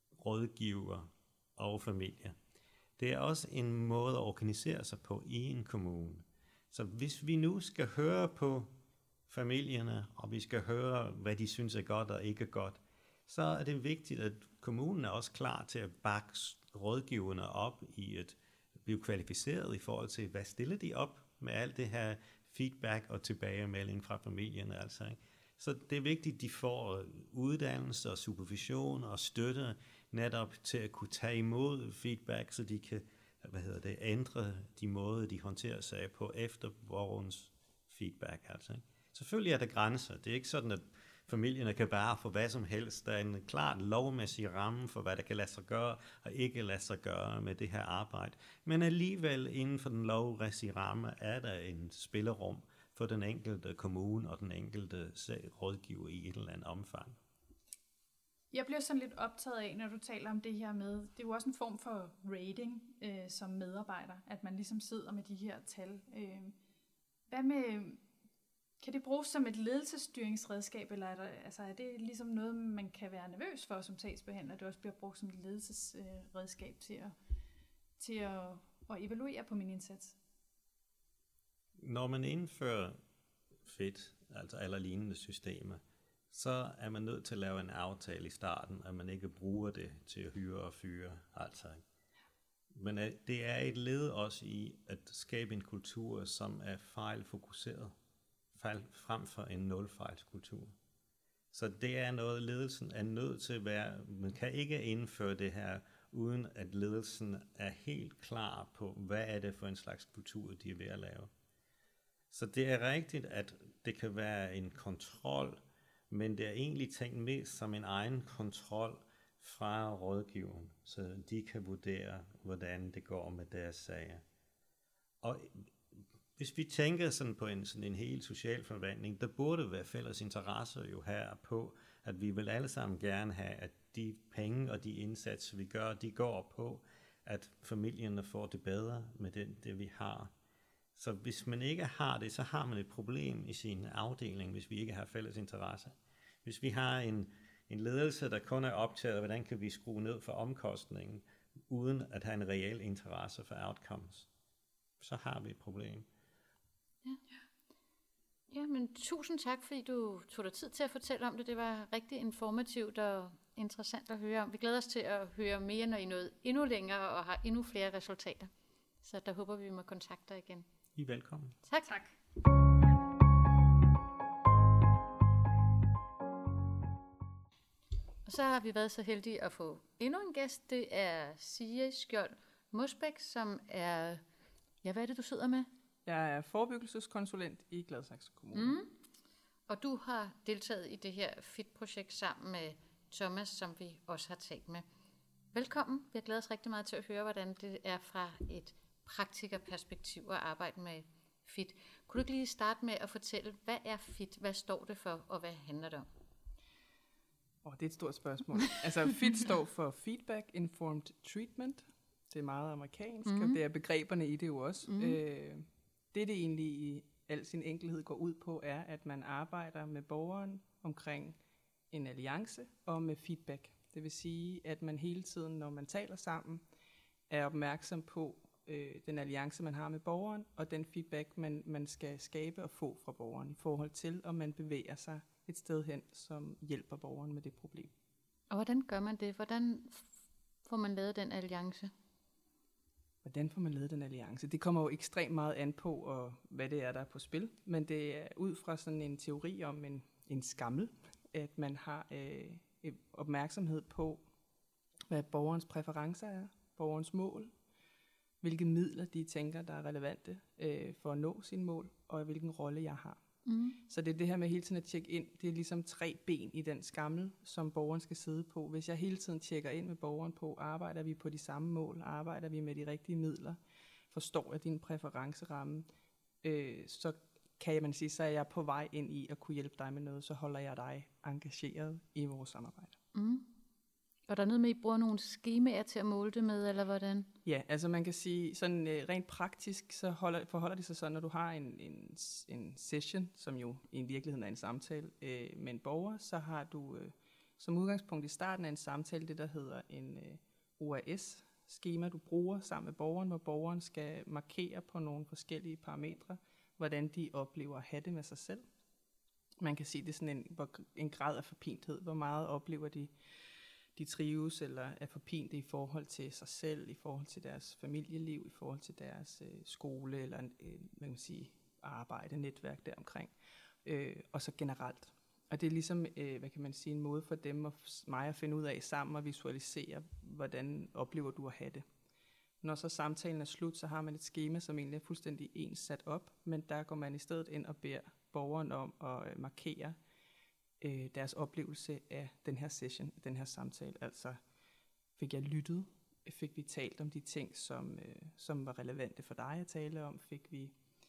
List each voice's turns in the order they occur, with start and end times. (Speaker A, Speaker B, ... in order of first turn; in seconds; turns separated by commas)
Speaker A: 0.2-2.4, Speaker A: 3.0-8.7, Speaker A: 9.3-57.2, Speaker B: 58.5-66.5, Speaker B: 67.3-68.0, Speaker B: 68.8-77.1, Speaker B: 78.0-80.2, Speaker A: 81.8-83.0, Speaker A: 83.6-91.8, Speaker A: 92.7-97.9, Speaker A: 98.5-100.7, Speaker A: 101.5-111.3, Speaker A: 112.3-124.2, Speaker A: 125.2-140.3, Speaker A: 140.9-154.3, Speaker A: 155.0-156.1, Speaker C: 158.5-168.5, Speaker C: 169.0-170.7, Speaker A: 170.9-171.6, Speaker B: 171.8-172.1, Speaker C: 178.2-184.2, Speaker C: 184.8-185.7, Speaker D: 186.1-188.7, Speaker C: 188.5-188.9, Speaker C: 189.7-194.8, Speaker C: 195.5-206.1, Speaker D: 207.6-221.4, Speaker C: 213.2-213.6, Speaker C: 214.9-215.2, Speaker D: 221.9-226.6, Speaker D: 227.3-237.9, Speaker C: 238.5-240.1, Speaker C: 240.7-241.9, Speaker D: 243.2-254.2, Speaker D: 255.1-257.5, Speaker D: 258.4-263.2, Speaker C: 263.4-263.8, Speaker D: 263.9-273.6, Speaker D: 274.1-275.9, Speaker D: 276.4-282.9, Speaker C: 283.1-283.4, Speaker C: 284.3-287.3, Speaker D: 287.4-308.6, Speaker D: 309.6-313.1, Speaker D: 313.9-331.9, Speaker D: 332.6-340.0, Speaker D: 340.8-344.4, Speaker D: 345.2-350.8